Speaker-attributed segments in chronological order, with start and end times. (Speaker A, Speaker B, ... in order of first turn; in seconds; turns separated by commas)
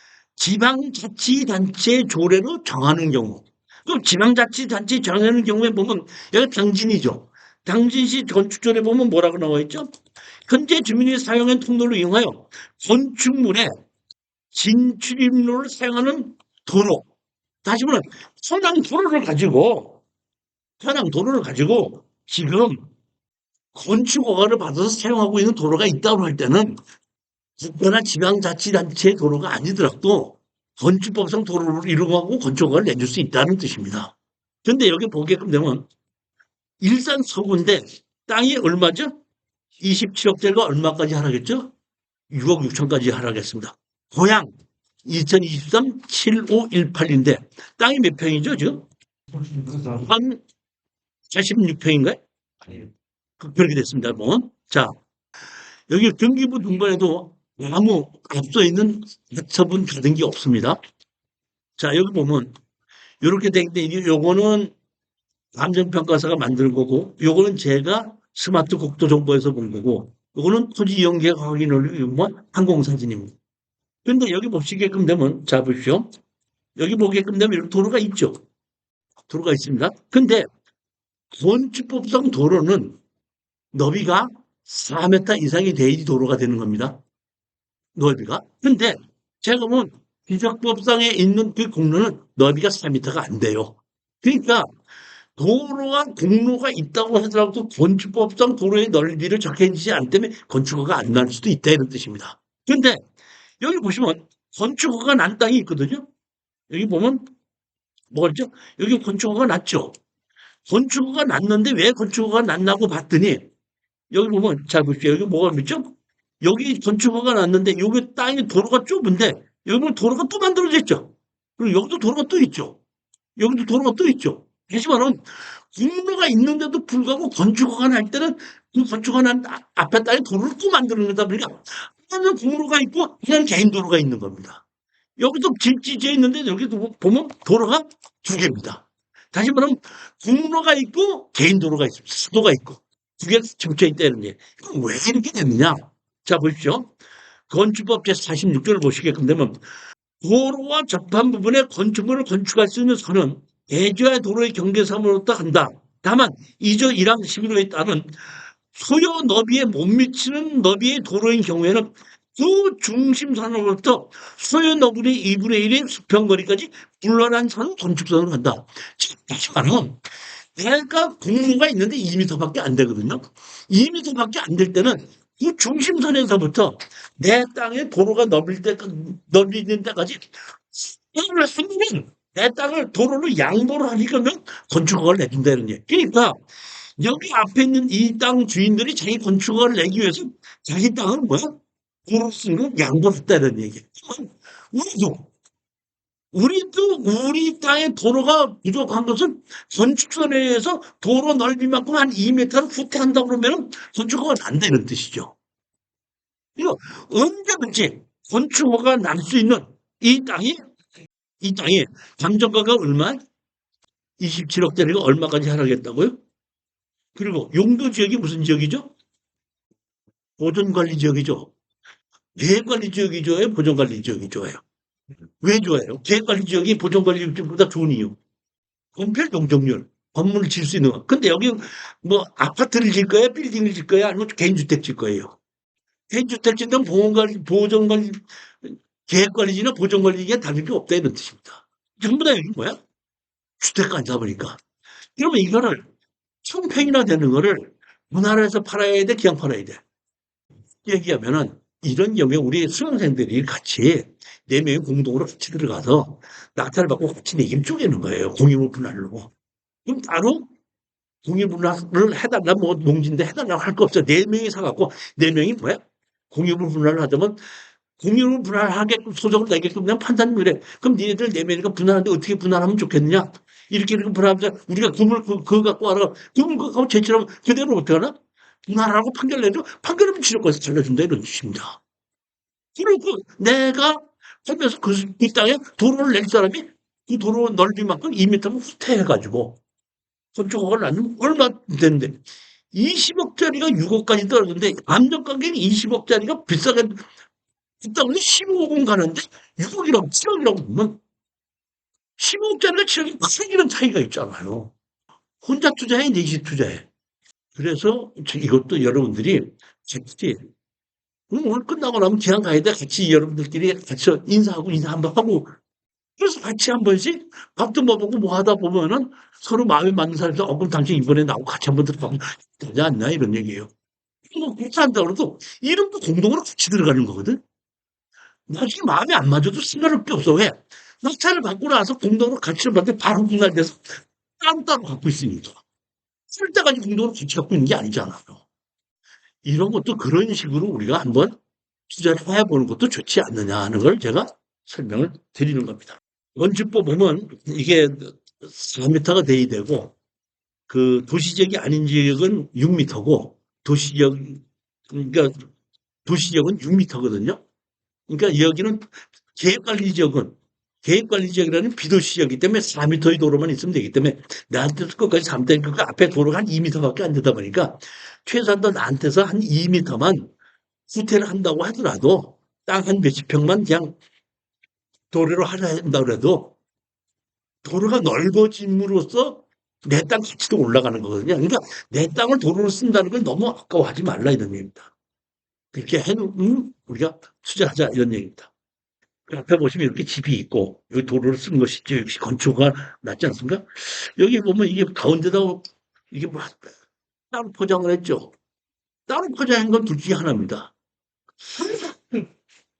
Speaker A: 0.4-9.9, Speaker A: 10.5-13.7, Speaker A: 14.5-17.1, Speaker A: 17.6-20.0, Speaker A: 20.8-22.8, Speaker A: 23.7-26.8, Speaker A: 27.6-35.9, Speaker A: 36.8-39.1, Speaker A: 39.8-41.7, Speaker A: 42.3-44.5, Speaker A: 45.0-50.4, Speaker A: 51.3-54.9, Speaker A: 55.9-60.8, Speaker A: 61.8-62.5, Speaker A: 63.2-64.7, Speaker A: 65.5-73.3, Speaker A: 74.0-76.1, Speaker A: 76.8-78.4, Speaker A: 79.3-80.5, Speaker A: 81.3-83.0, Speaker A: 83.7-87.0, Speaker A: 88.0-94.7, Speaker A: 95.4-103.0, Speaker A: 103.6-106.1, Speaker A: 106.7-107.3, Speaker A: 108.1-110.0, Speaker A: 110.7-113.5, Speaker A: 114.1-122.8, Speaker A: 123.4-134.6, Speaker A: 135.2-146.9, Speaker A: 147.5-149.6, Speaker A: 150.2-158.2, Speaker A: 158.7-170.0, Speaker A: 170.6-186.4, Speaker A: 187.0-195.3, Speaker A: 196.3-205.3, Speaker A: 206.6-210.6, Speaker A: 211.4-213.2, Speaker A: 214.2-216.2, Speaker A: 217.2-218.9, Speaker A: 220.4-221.5, Speaker A: 222.3-224.6, Speaker A: 225.4-228.2, Speaker A: 228.9-235.4, Speaker A: 236.1-242.8, Speaker A: 243.6-244.6, Speaker A: 245.2-245.9, Speaker A: 246.4-249.8, Speaker A: 250.8-259.3, Speaker A: 259.9-260.5, Speaker A: 261.2-267.4, Speaker A: 268.0-278.1, Speaker A: 278.7-281.8, Speaker A: 282.8-289.6, Speaker A: 290.4-292.2, Speaker A: 292.7-297.1, Speaker A: 297.8-301.0, Speaker A: 302.2-304.7, Speaker A: 305.4-306.9, Speaker A: 307.6-310.4, Speaker A: 311.3-315.5, Speaker A: 316.2-323.7, Speaker A: 324.3-327.4, Speaker A: 328.5-335.6, Speaker A: 336.3-338.4, Speaker A: 339.4-341.4, Speaker A: 341.9-349.9, Speaker A: 350.7-355.4, Speaker A: 356.1-357.4, Speaker A: 358.1-370.3, Speaker A: 370.9-373.9, Speaker A: 375.1-376.6, Speaker A: 377.6-384.9, Speaker A: 385.7-388.5, Speaker A: 389.3-396.7, Speaker A: 397.3-398.3, Speaker A: 399.1-400.7, Speaker A: 401.4-402.3